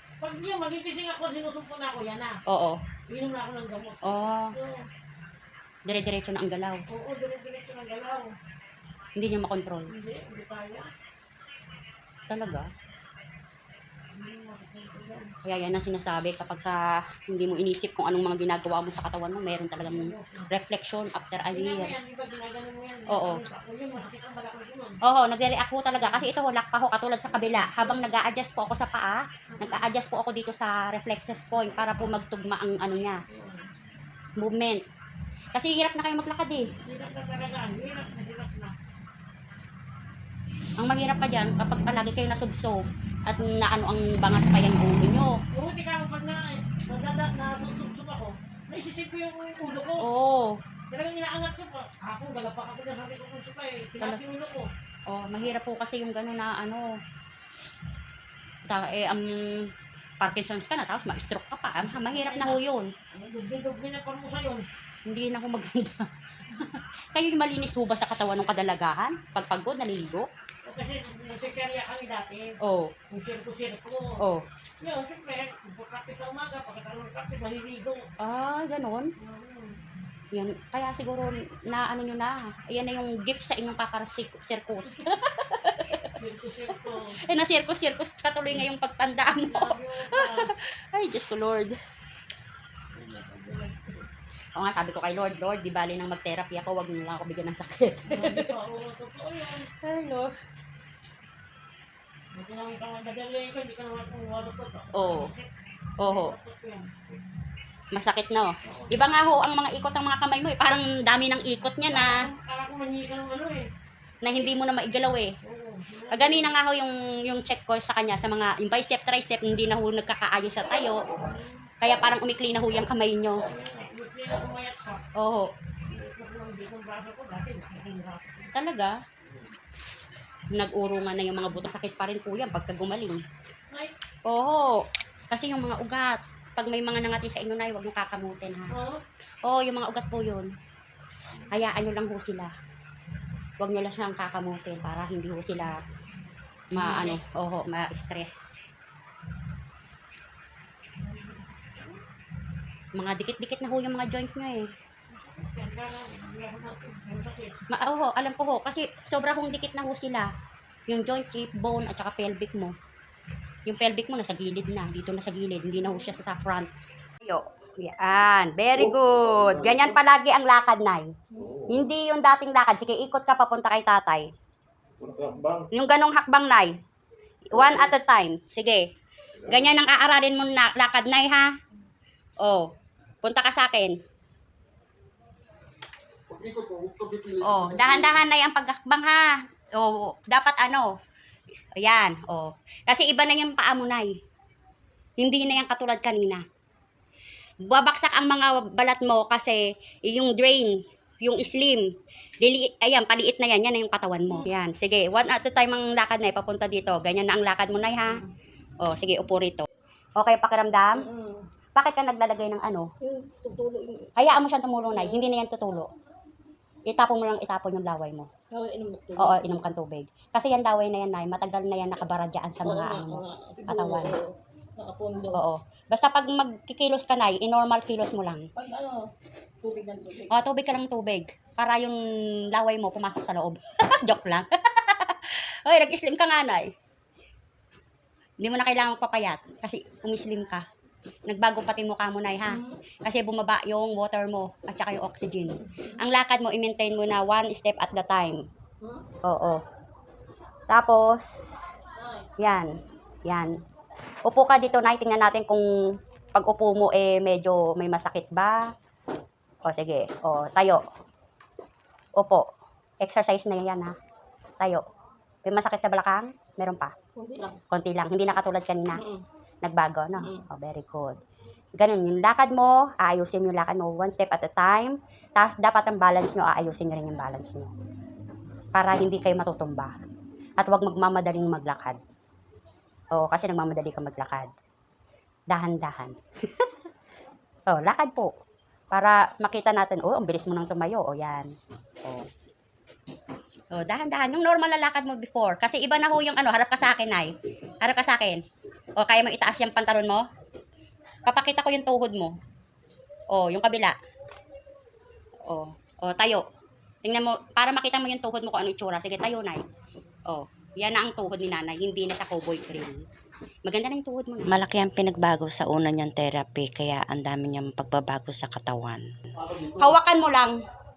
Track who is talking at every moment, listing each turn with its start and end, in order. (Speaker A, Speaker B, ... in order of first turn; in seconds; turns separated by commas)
Speaker A: 0.2-2.4, Speaker B: 2.5-2.8, Speaker A: 3.1-4.8, Speaker B: 4.0-4.5, Speaker B: 5.9-6.8, Speaker A: 6.9-8.3, Speaker B: 9.2-9.9, Speaker A: 9.9-10.9, Speaker B: 12.3-12.7, Speaker A: 14.1-15.3, Speaker B: 15.4-21.9, Speaker A: 19.9-20.5, Speaker A: 21.5-25.0, Speaker B: 23.1-23.4, Speaker B: 25.0-33.2, Speaker A: 27.4-28.0, Speaker A: 29.5-29.9, Speaker A: 31.6-32.1, Speaker A: 33.3-33.7, Speaker B: 34.4-34.8, Speaker B: 35.5-36.7, Speaker A: 36.8-38.8, Speaker B: 40.8-45.4, Speaker A: 45.5-50.0, Speaker B: 50.0-50.6, Speaker A: 50.9-54.7, Speaker B: 55.1-57.0, Speaker B: 58.7-62.9, Speaker A: 61.8-62.6, Speaker A: 63.1-64.7, Speaker B: 65.1-70.3, Speaker A: 70.7-72.6, Speaker B: 72.6-72.9, Speaker A: 73.1-74.2, Speaker A: 74.8-78.0, Speaker B: 78.2-79.1, Speaker A: 79.2-79.8, Speaker B: 80.3-86.2, Speaker A: 86.2-87.2, Speaker B: 86.8-91.8, Speaker A: 89.4-90.5, Speaker A: 92.9-94.1, Speaker B: 94.6-98.5, Speaker A: 98.1-99.7, Speaker B: 99.8-100.3, Speaker A: 102.3-105.5, Speaker B: 104.9-105.3, Speaker B: 106.0-106.3, Speaker A: 106.0-107.2, Speaker B: 107.9-112.2, Speaker A: 108.6-108.9, Speaker A: 111.8-113.7, Speaker B: 114.2-115.3, Speaker A: 115.4-116.5, Speaker B: 116.1-121.0, Speaker A: 121.1-121.6, Speaker B: 121.8-123.4, Speaker A: 123.4-125.0, Speaker B: 125.2-125.5, Speaker A: 125.9-128.5, Speaker B: 128.5-129.0, Speaker B: 130.5-133.2, Speaker B: 134.3-138.7, Speaker A: 138.7-139.0, Speaker B: 139.4-140.5, Speaker B: 141.5-142.5, Speaker B: 143.6-145.8, Speaker B: 146.7-148.6, Speaker A: 146.8-147.2, Speaker A: 151.0-152.0, Speaker B: 152.9-154.7, Speaker A: 155.1-157.6, Speaker B: 157.7-160.3, Speaker B: 160.9-162.7, Speaker B: 163.7-166.7, Speaker B: 167.2-171.1, Speaker C: 168.8-170.0, Speaker C: 171.4-171.8, Speaker B: 171.7-174.3, Speaker C: 175.0-175.7, Speaker B: 175.7-176.7, Speaker B: 177.5-178.9, Speaker C: 177.5-177.9, Speaker C: 179.4-179.7, Speaker B: 179.5-181.5, Speaker B: 182.4-182.7, Speaker B: 183.2-184.0, Speaker C: 186.3-188.2, Speaker B: 187.4-190.9, Speaker B: 191.8-194.1, Speaker B: 195.2-196.4, Speaker B: 197.7-201.9, Speaker B: 202.4-208.2, Speaker B: 208.8-211.0, Speaker D: 211.0-211.4, Speaker B: 211.8-212.9, Speaker D: 213.0-214.1, Speaker B: 214.2-215.9, Speaker D: 214.9-215.2, Speaker B: 216.9-218.3, Speaker D: 218.5-219.4, Speaker B: 219.2-224.1, Speaker D: 222.6-225.4, Speaker B: 225.3-228.5, Speaker D: 228.6-229.1, Speaker D: 229.6-230.3, Speaker B: 230.3-232.0, Speaker B: 232.5-236.7, Speaker B: 238.4-240.7, Speaker B: 241.3-248.4, Speaker D: 242.5-242.8, Speaker B: 249.2-249.6, Speaker B: 250.7-251.4, Speaker D: 252.0-252.3, Speaker B: 252.4-252.7, Speaker B: 253.3-253.5, Speaker B: 254.2-255.6, Speaker B: 256.3-258.7, Speaker B: 259.6-260.8, Speaker B: 262.2-262.4, Speaker B: 263.0-264.0, Speaker B: 265.4-266.9, Speaker D: 267.1-267.6, Speaker B: 267.7-269.0, Speaker D: 268.9-269.2, Speaker B: 269.6-271.2, Speaker B: 271.8-277.7, Speaker B: 278.7-279.9, Speaker B: 280.6-282.0, Speaker B: 283.1-284.5, Speaker B: 285.5-286.7, Speaker B: 287.7-288.3, Speaker B: 288.9-291.5, Speaker B: 293.7-298.4, Speaker B: 299.0-300.3, Speaker B: 301.3-302.4, Speaker B: 303.3-303.9, Speaker B: 305.5-306.4, Speaker B: 307.0-309.6, Speaker B: 310.3-313.1, Speaker B: 313.6-314.5, Speaker E: 314.5-319.0, Speaker C: 319.4-320.0, Speaker B: 319.8-320.6